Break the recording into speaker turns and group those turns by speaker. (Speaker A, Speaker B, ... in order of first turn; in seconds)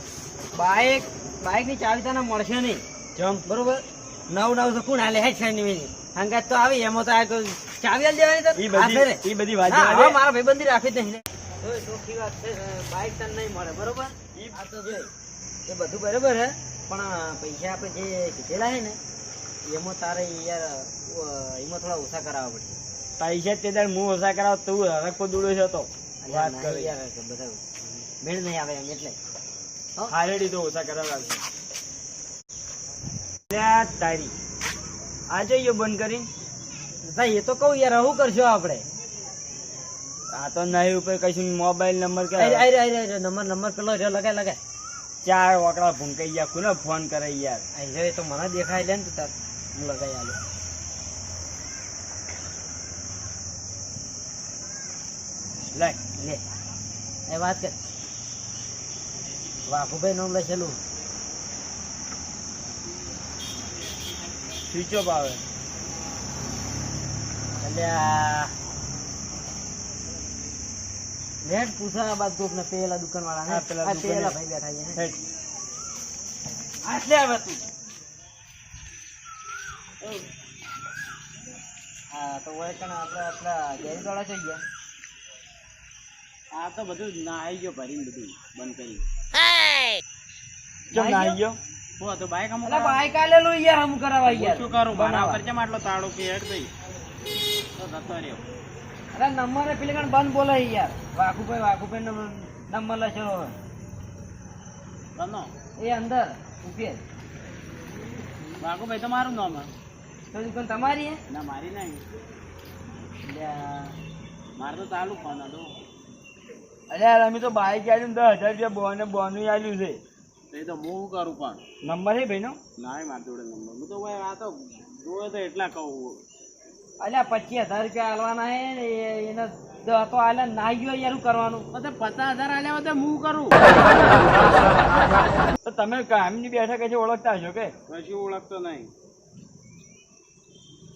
Speaker A: 0.5-2.8, 3.5-15.1, 15.7-19.0, 19.6-22.8, 26.2-27.6, 28.2-29.1, 37.0-38.8, 42.4-44.6, 47.7-50.4, 57.3-57.8, 59.7-60.8, 67.6-68.5, 71.4-75.0, 76.8-77.6, 82.1-84.6, 90.9-91.4, 92.6-95.4, 99.1-103.5, 105.8-107.0, 110.3-111.2, 113.2-113.9, 127.0-131.7
Speaker B: 3.1-3.4, 8.6-10.2, 14.3-15.0, 23.2-26.9, 30.1-31.4, 33.5-34.3, 35.3-36.3, 40.3-42.6, 45.2-47.6, 64.7-65.4, 73.5-74.3, 90.9-91.6, 116.9-120.0, 121.8-122.6, 135.6-137.7
Speaker C: 86.5-89.0, 92.0-93.1, 94.2-96.7, 97.8-98.4, 105.2-105.5, 108.6-109.7, 111.3-112.0, 114.5-115.7, 120.5-121.6, 122.8-126.2, 131.7-134.3, 137.9-138.9